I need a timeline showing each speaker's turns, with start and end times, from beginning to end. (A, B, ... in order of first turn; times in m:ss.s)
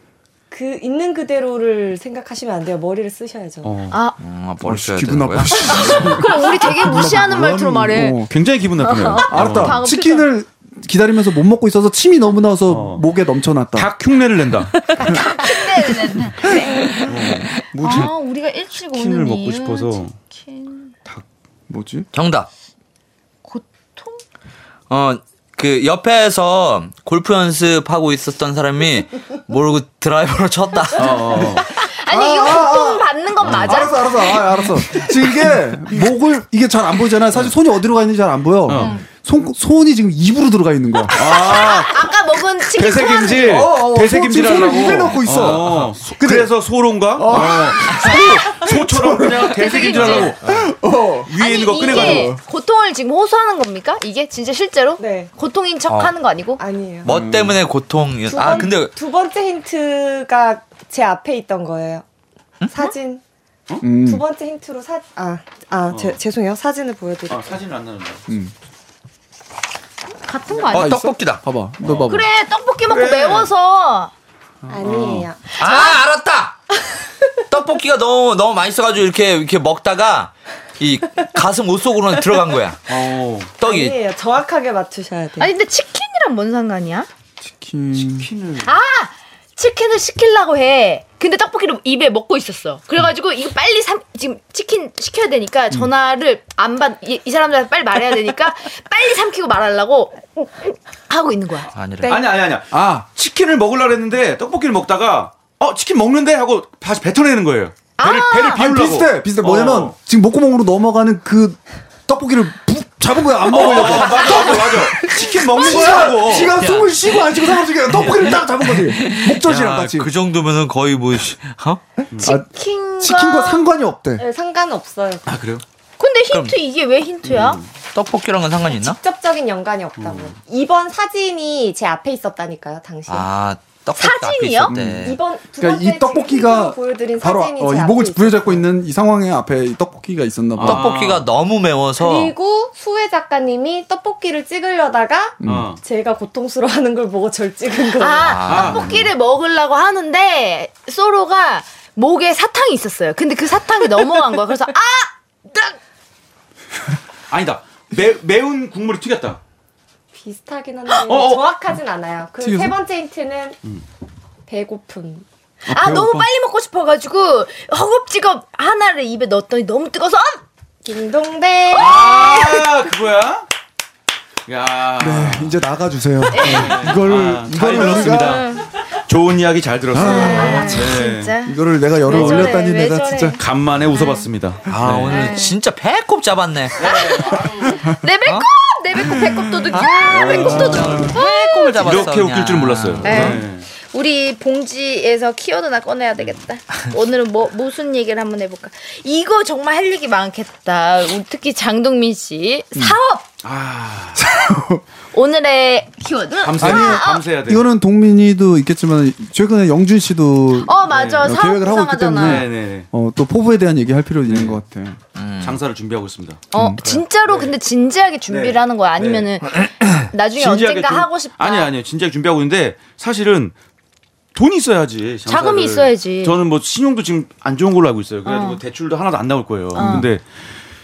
0:00.5-0:03.7 A
0:03.6-0:04.0 B
0:03.9-0:04.2 C
0:04.2-0:05.9 D
0:04.6-0:08.3 E
0:05.6-0:08.2 C
0:08.3-0:09.8 B
0:08.8-0:10.3 C
0:09.3-0:13.9 E
0:12.7-0:13.0 B
0:13.7-0:14.7 B
0:15.0-0:17.1 C
0:17.0-0:18.1 B
0:17.7-0:18.1 E
0:17.8-0:20.9 C
0:18.8-0:20.1 B
0:21.7-0:22.1 E
0:22.1-0:22.5 D
0:23.4-0:24.2 C
0:24.9-0:31.5 D
0:30.9-0:31.7 B
0:31.8-0:34.2 C
0:32.1-0:41.3 E
0:38.7-0:39.0 B
0:38.8-0:39.0 C
0:41.1-0:42.1 B
0:41.1-0:43.8 C
0:42.7-0:50.5 B
0:43.1-0:46.5 E
0:45.3-0:45.9 D
0:47.1-0:52.4 E
0:49.5-0:50.3 C
0:51.2-0:52.4 B
0:51.3-0:56.6 C
0:55.0-0:55.3 A
0:56.6-0:57.1 A
0:57.0-0:58.9 D
0:57.0-0:57.6 E
0:58.3-1:02.0 A
1:02.6-1:02.9 D
1:02.7-1:03.2 A
1:03.8-1:04.2 E
1:03.9-1:07.6 A
1:05.9-1:06.2 B
1:07.3-1:08.2 B
1:08.3-1:08.5 E
1:10.2-1:11.0 C
1:10.7-1:12.3 E
1:10.7-1:11.4 D
1:11.8-1:12.2 B
1:12.1-1:14.1 C
1:12.8-1:13.5 B
1:14.6-1:15.1 E
1:14.7-1:15.4 A
1:14.8-1:15.2 B
1:15.5-1:16.0 C
1:15.6-1:16.6 D
1:17.5-1:23.0 D
1:22.9-1:23.6 B
1:23.6-1:24.0 D
1:23.6-1:25.5 A
1:25.4-1:27.1 C
1:27.4-1:28.3 E
1:27.9-1:28.7 B
1:28.6-1:42.2 C
1:41.7-1:42.2 D
1:42.0-1:50.0 B
1:42.7-1:43.1 E
1:48.0-1:48.6 C
1:48.5-2:00.1 E
1:53.5-1:56.6 B
1:53.5-1:54.7 C
1:55.5-1:56.0 C
1:56.5-1:57.1 D
1:57.9-2:01.8 D
2:02.1-2:02.5 E
2:02.2-2:03.7 C
2:03.0-2:04.2 E
2:04.2-2:05.3 A
2:05.2-2:05.6 B
2:06.0-2:07.6 C
2:07.2-2:07.6 B
2:07.9-2:09.0 D
2:08.7-2:13.3 A
2:10.0-2:10.3 B
2:13.1-2:15.2 D
2:14.0-2:14.7 C
2:14.7-2:20.9 E
2:15.0-2:18.6 A
2:20.6-2:21.2 B
2:20.6-2:22.3 D
2:22.0-2:28.4 A
2:25.4-2:25.7 E
2:25.4-2:25.8 B
2:28.0-2:35.8 C
2:28.2-2:28.9 D
2:28.4-2:29.1 B
2:37.3-2:39.4 B
2:40.1-2:43.6 A
2:41.0-2:41.5 B
2:42.4-2:42.8 E
2:44.5-2:45.2 A
2:45.6-2:50.4 C
2:45.7-2:46.3 E
2:50.8-2:52.5 A
2:51.7-2:52.6 C
2:51.7-2:53.4 B
2:54.5-2:55.6 B
2:55.0-2:58.4 E
2:56.3-2:56.9 C
2:56.4-3:01.3 B
2:57.8-2:58.6 C
2:59.9-3:00.8 E
3:00.0-3:04.3 C
3:00.1-3:00.8 A
3:01.4-3:03.4 E
3:02.1-3:02.6 B
3:03.4-3:05.2 B
3:04.7-3:07.4 D
3:05.0-3:05.5 C
3:06.8-3:07.4 B
3:06.8-3:12.1 C
3:09.1-3:09.4 E
3:09.7-3:13.4 D
3:10.1-3:11.1 E
3:10.4-3:11.1 B
3:11.8-3:13.7 B
3:13.0-3:23.2 C
3:23.4-3:24.2 B
3:24.1-3:24.8 E
3:25.1-3:27.2 C
3:26.4-3:27.6 B
3:26.6-3:35.0 E
3:30.6-3:32.5 C
3:30.9-3:31.3 B
3:32.2-3:32.9 B
3:34.3-3:34.6 B
3:35.1-3:35.6 D
3:35.4-3:37.5 B
3:36.5-3:41.7 C
3:36.5-3:36.8 E
3:38.3-3:39.3 B
3:40.3-3:43.5 B
3:44.3-3:50.2 B
3:45.2-3:46.4 C
3:48.2-3:48.6 C
3:49.7-3:50.1 C
3:49.8-3:50.1 E